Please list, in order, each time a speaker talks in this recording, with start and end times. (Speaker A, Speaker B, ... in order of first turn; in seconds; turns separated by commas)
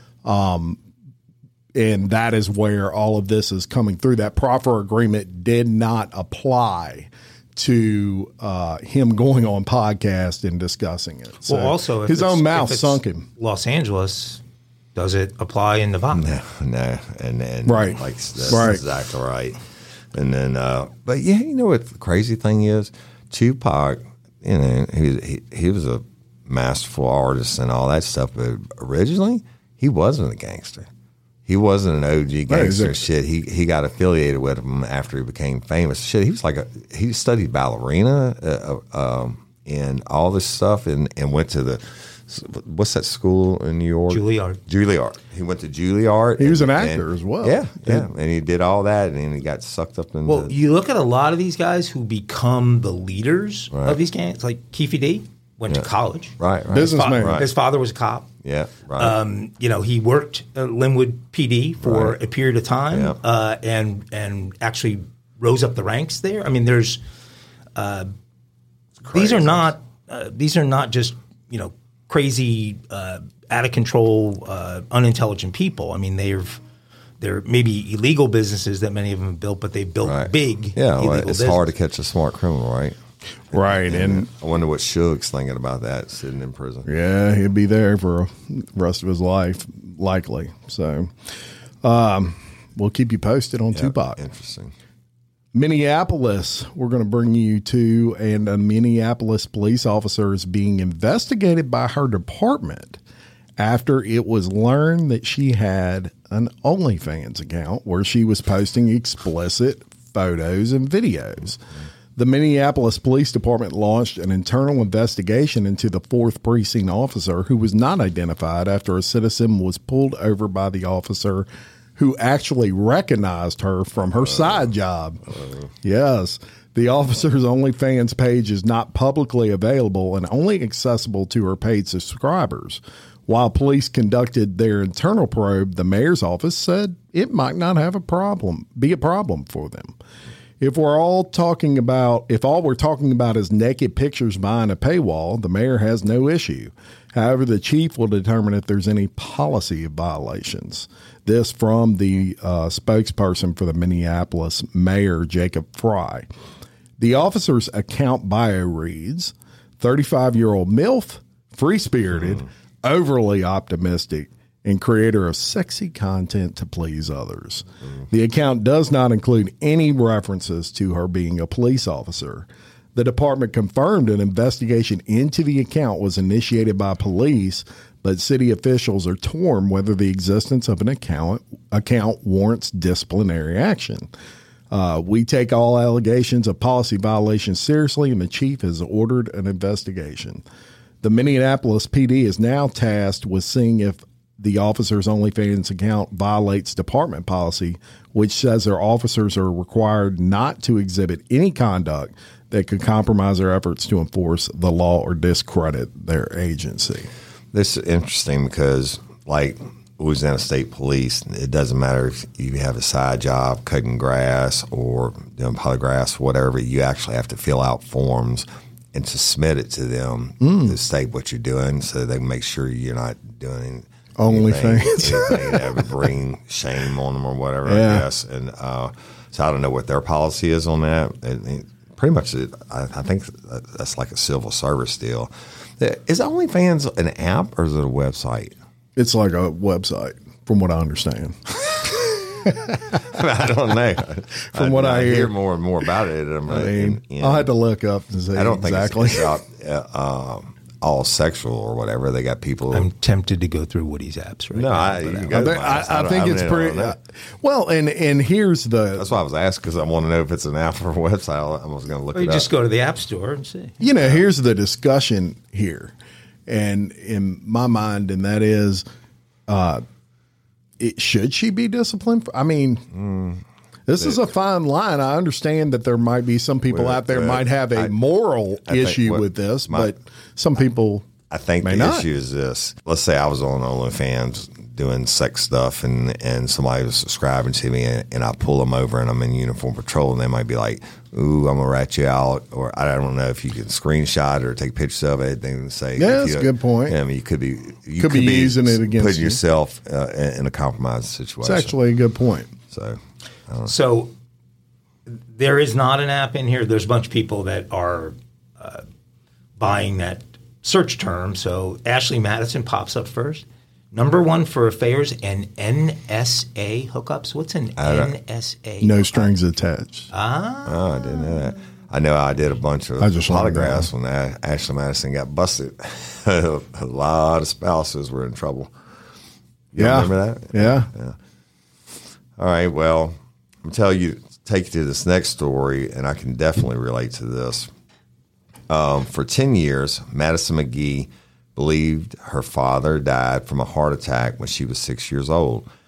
Speaker A: 0.2-0.8, Speaker A: 1.8-13.3, Speaker B: 11.4-14.4, Speaker B: 14.9-16.4, Speaker C: 16.1-19.6, Speaker A: 17.7-18.8, Speaker C: 20.1-30.9, Speaker C: 31.5-50.5, Speaker A: 32.5-33.0, Speaker B: 44.1-44.6, Speaker A: 46.4-48.1, Speaker B: 50.3-56.3, Speaker C: 53.7-54.0, Speaker C: 56.4-57.5, Speaker A: 56.7-57.4, Speaker B: 57.0-58.3, Speaker C: 58.4-59.2, Speaker B: 59.0-67.0, Speaker C: 61.8-62.2, Speaker C: 62.9-63.2, Speaker B: 67.8-68.1, Speaker C: 69.1-69.7, Speaker B: 69.1-76.6, Speaker B: 77.2-81.6, Speaker C: 80.0-83.0, Speaker C: 83.5-86.9, Speaker A: 83.5-84.3, Speaker A: 86.8-91.1, Speaker A: 91.8-94.2, Speaker C: 93.7-94.8, Speaker A: 95.5-103.0, Speaker A: 103.6-111.6, Speaker A: 112.2-125.2, Speaker C: 125.3-125.7, Speaker A: 125.8-139.9, Speaker A: 140.6-156.3, Speaker A: 157.0-184.1, Speaker A: 184.7-190.4, Speaker A: 191.0-207.1, Speaker C: 207.5-238.5, Speaker A: 220.4-220.8, Speaker A: 224.2-225.9, Speaker A: 227.7-228.1, Speaker A: 239.0-241.4, Speaker C: 241.7-247.5, Speaker A: 242.4-242.8, Speaker A: 244.5-245.3, Speaker A: 246.5-249.3, Speaker C: 248.3-252.9, Speaker B: 252.7-255.3, Speaker C: 254.5-257.0, Speaker A: 255.3-259.1, Speaker C: 258.9-262.5, Speaker B: 262.1-263.8, Speaker A: 263.8-265.9, Speaker A: 266.5-268.9, Speaker A: 269.5-269.8, Speaker A: 270.8-272.9, Speaker C: 272.9-273.4, Speaker A: 273.9-281.1, Speaker C: 274.0-274.2, Speaker C: 276.7-277.9, Speaker C: 278.7-279.9, Speaker C: 281.3-301.8, Speaker A: 281.6-282.1, Speaker A: 296.0-297.0, Speaker A: 298.0-299.4, Speaker A: 301.4-302.5, Speaker C: 302.7-303.7, Speaker B: 303.7-304.1, Speaker B: 305.1-308.8, Speaker B: 309.6-319.3, Speaker C: 317.8-318.1, Speaker A: 318.8-320.1, Speaker B: 320.1-320.9, Speaker C: 320.7-328.7, Speaker A: 323.0-323.9, Speaker C: 329.7-331.2, Speaker A: 329.8-330.9, Speaker C: 332.4-337.7, Speaker C: 338.7-345.7